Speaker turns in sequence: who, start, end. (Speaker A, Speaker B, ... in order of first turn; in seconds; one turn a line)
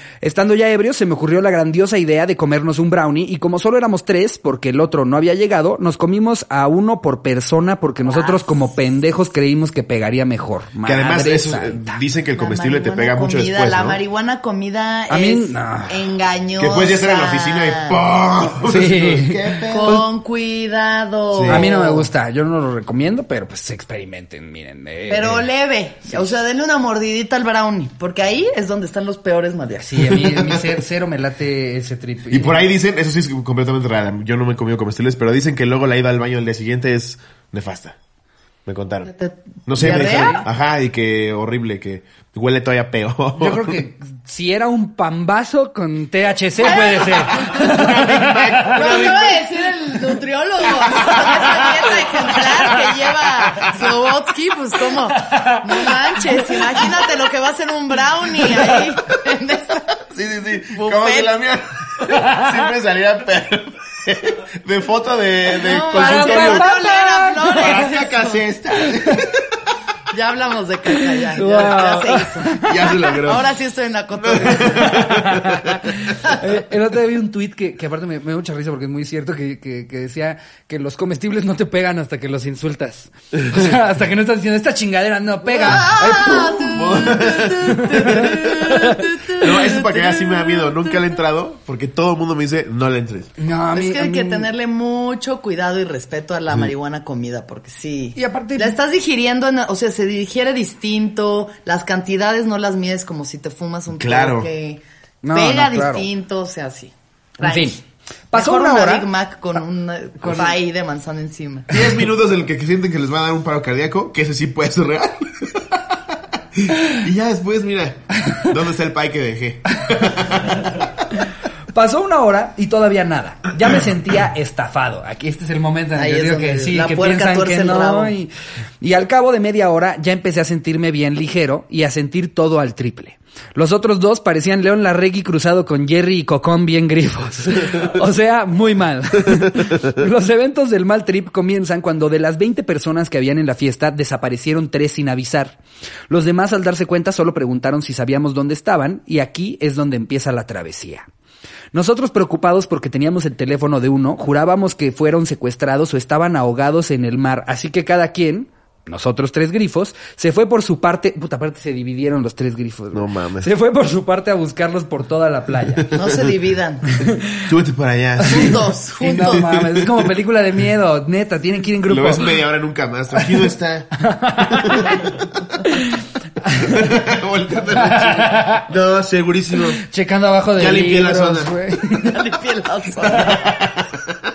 Speaker A: 0.2-12.0
Speaker B: 8.1-8.7
Speaker C: 10.8-14.0
Speaker B: 12.3-18.0
Speaker A: 15.1-16.0
Speaker C: 16.6-19.9
Speaker A: 18.6-20.1
Speaker B: 19.6-22.1
Speaker C: 21.3-21.6
Speaker A: 21.5-25.4
Speaker B: 25.1-30.2
Speaker A: 29.8-32.6
Speaker C: 30.1-30.6
Speaker C: 32.3-38.0
Speaker C: 38.6-39.1
Speaker B: 39.1-40.4
Speaker C: 39.7-43.8
Speaker A: 39.8-40.4
Speaker A: 43.4-49.4
Speaker B: 46.5-60.0
Speaker C: 47.6-49.0
Speaker C: 50.9-52.5
Speaker A: 51.4-51.6
Speaker C: 53.4-53.8
Speaker A: 55.1-56.9
Speaker C: 60.1-66.7
Speaker B: 60.7-61.3
Speaker A: 62.1-62.5
Speaker B: 65.6-68.4
Speaker A: 65.9-67.9
Speaker C: 67.6-69.6
Speaker A: 68.8-69.2
Speaker B: 70.1-75.2
Speaker A: 70.9-73.0
Speaker C: 72.6-73.5
Speaker C: 74.2-76.1
Speaker A: 74.8-89.4
Speaker B: 85.5-90.8
Speaker C: 85.7-93.3
Speaker A: 93.4-94.5
Speaker B: 93.7-104.8
Speaker A: 98.1-98.8
Speaker C: 103.9-104.5
Speaker A: 105.2-106.0
Speaker B: 105.3-107.8
Speaker A: 107.4-107.8
Speaker A: 108.3-109.1
Speaker B: 108.3-111.8
Speaker A: 110.2-110.5
Speaker C: 111.7-121.0
Speaker A: 121.7-145.6
Speaker B: 126.0-128.1
Speaker A: 146.1-151.1
Speaker A: 151.7-165.9
Speaker C: 162.9-163.5
Speaker C: 165.8-166.3
Speaker B: 165.9-166.9
Speaker A: 166.9-167.4
Speaker C: 167.4-170.1
Speaker B: 168.2-169.4
Speaker A: 168.3-172.4
Speaker C: 171.9-175.4
Speaker A: 174.0-175.1
Speaker A: 175.6-176.8
Speaker C: 176.6-179.8
Speaker A: 177.8-178.6
Speaker A: 179.8-182.2
Speaker C: 180.6-181.5
Speaker B: 181.9-183.5
Speaker C: 183.1-184.2